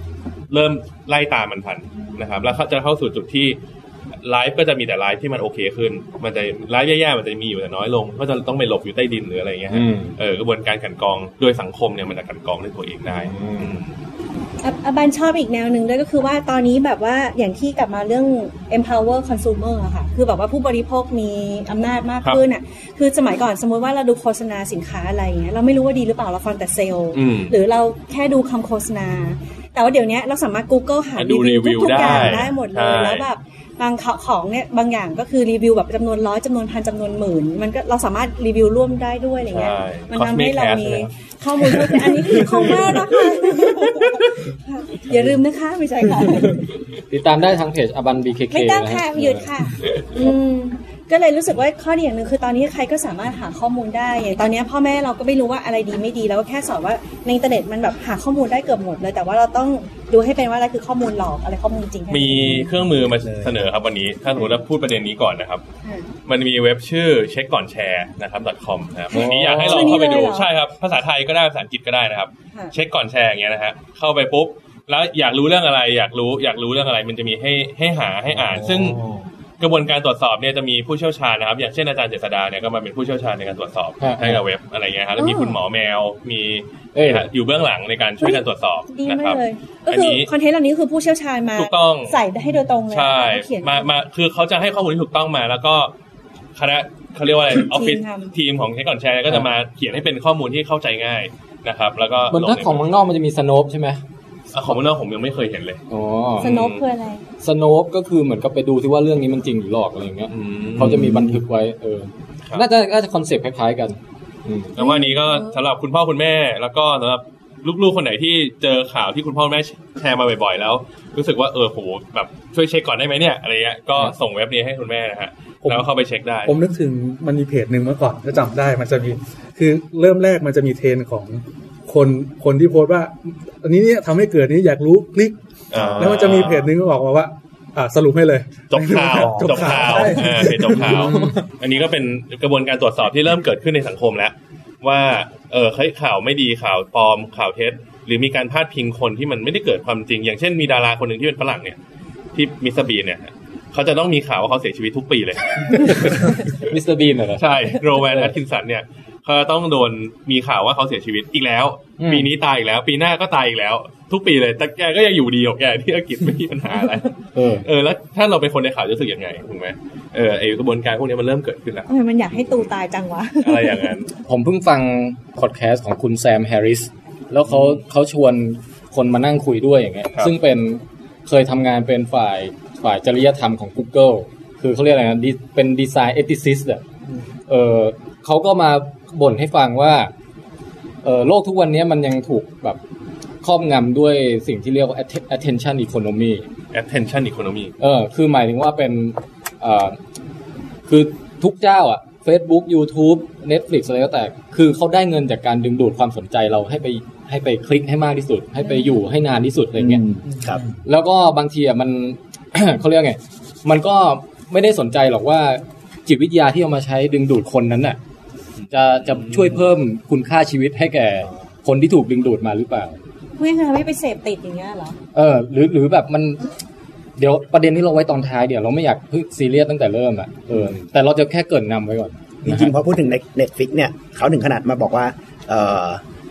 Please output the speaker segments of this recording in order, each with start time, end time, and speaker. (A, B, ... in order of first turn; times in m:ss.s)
0:00.5-0:03.6 A
0:04.2-0:13.9 A
0:09.7-0:10.2 B
0:13.1-0:13.8 B
0:14.6-0:46.6 C
0:27.1-0:27.6 A
0:31.2-0:33.2 A
0:39.5-0:41.1 A
0:41.8-0:42.8 A
0:47.1-0:49.5 B
0:48.5-1:02.7 C
1:02.1-1:05.6 A
1:03.2-1:03.5 D
1:06.3-1:19.0 A
1:09.1-1:10.5 C
1:09.2-1:09.8 B
1:19.6-1:30.3 A
1:24.0-1:24.4 B
1:25.2-1:25.6 C
1:27.0-1:27.3 B
1:28.2-1:33.9 C
1:31.6-1:32.2 A
1:32.9-1:35.9 A
1:36.6-1:42.9 A
1:37.6-1:38.3 C
1:42.3-1:44.0 B
1:44.5-1:45.8 A
1:45.9-1:46.5 B
1:46.4-1:47.2 C
1:46.4-1:46.8 A
1:47.4-1:54.7 B
1:50.3-1:51.2 A
1:54.8-2:06.6 A
1:54.8-1:55.6 C
2:06.5-2:21.4 E
2:15.7-2:16.7 A
2:18.7-2:31.8 A
2:20.7-2:21.4 B
2:32.3-2:36.5 A
2:35.8-2:37.4 B
2:37.4-2:52.7 A
2:38.0-2:38.3 B
2:42.0-2:42.3 B
2:47.4-2:47.7 B
2:51.9-2:54.0 C
2:53.4-2:54.1 A
2:54.3-3:06.8 B
3:07.5-3:10.1 B
3:11.0-3:12.8 B
3:13.4-3:16.5 B
3:16.7-3:17.8 A
3:17.8-3:20.0 B
3:20.9-3:30.0 B
3:28.6-3:29.0 C
3:29.8-3:30.6 D
3:30.8-3:38.0 B
3:38.7-3:43.0 B
3:39.1-3:39.4 A
3:43.4-3:45.0 C
3:45.2-3:46.5 B
3:47.2-3:52.7 B
3:52.4-3:56.0 D